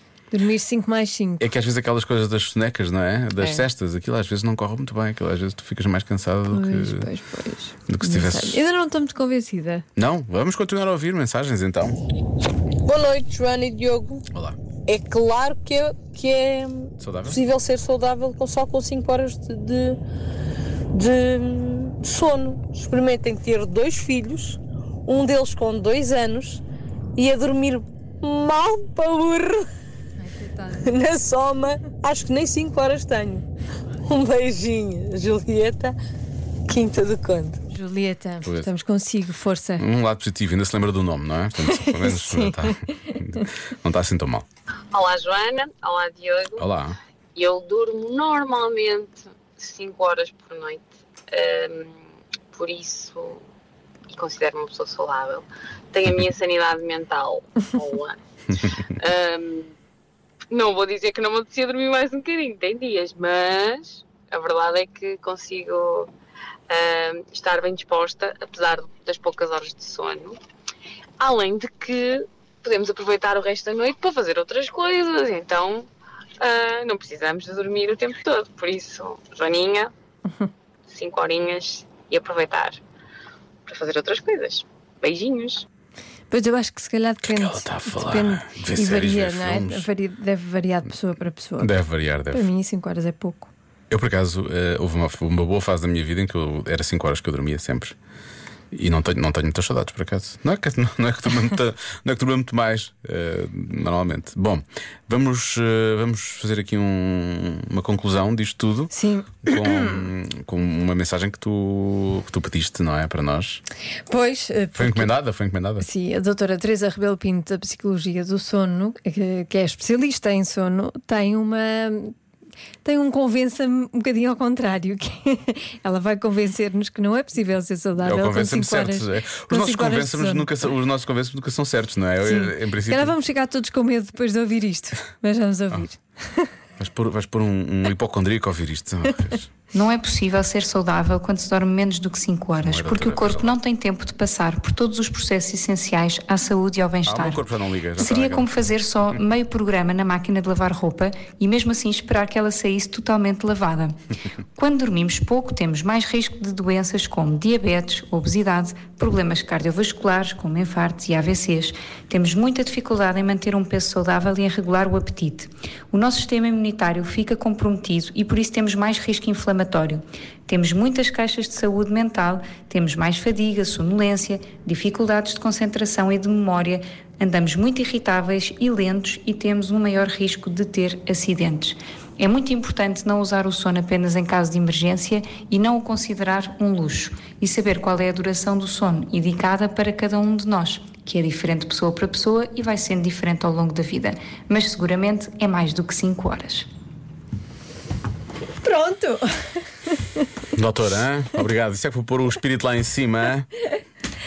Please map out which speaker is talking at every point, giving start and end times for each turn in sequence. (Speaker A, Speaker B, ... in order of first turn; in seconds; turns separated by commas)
Speaker A: 0.3-1.4, Speaker B: 1.4-7.1, Speaker A: 6.5-9.8, Speaker B: 7.9-8.6, Speaker B: 9.9-12.0, Speaker C: 12.8-14.2, Speaker B: 14.3-14.6, Speaker C: 14.8-20.0, Speaker B: 17.0-17.4, Speaker C: 20.9-26.6, Speaker C: 27.1-29.6, Speaker A: 30.2-30.9, Speaker C: 30.7-33.4, Speaker C: 34.0-36.0, Speaker C: 36.7-37.6, Speaker A: 37.7-39.8, Speaker B: 38.4-38.7, Speaker B: 39.8-44.5, Speaker A: 41.7-42.6, Speaker D: 44.9-46.6, Speaker B: 46.6-47.0, Speaker D: 47.3-51.9, Speaker D: 52.5-53.4, Speaker D: 54.1-59.7, Speaker D: 60.5-66.1, Speaker D: 66.7-70.4, Speaker D: 71.2-75.9, Speaker D: 76.4-79.9, Speaker D: 80.9-82.8, Speaker D: 83.7-85.6, Speaker A: 86.3-91.7, Speaker B: 87.2-89.9, Speaker B: 91.6-92.5, Speaker A: 92.3-93.5, Speaker B: 93.9-97.9, Speaker B: 98.7-108.9, Speaker A: 108.9-109.9, Speaker B: 109.4-113.6, Speaker A: 114.1-115.1, Speaker B: 114.7-115.8, Speaker A: 115.8-122.1, Speaker A: 122.8-130.5, Speaker B: 128.0-133.1, Speaker A: 132.2-136.5, Speaker B: 136.8-139.5, Speaker E: 139.7-154.0, Speaker B: 142.6-143.5, Speaker B: 147.1-148.5, Speaker E: 154.5-196.7, Speaker A: 198.6-199.3, Speaker A: 199.9-200.2, Speaker B: 200.5-203.5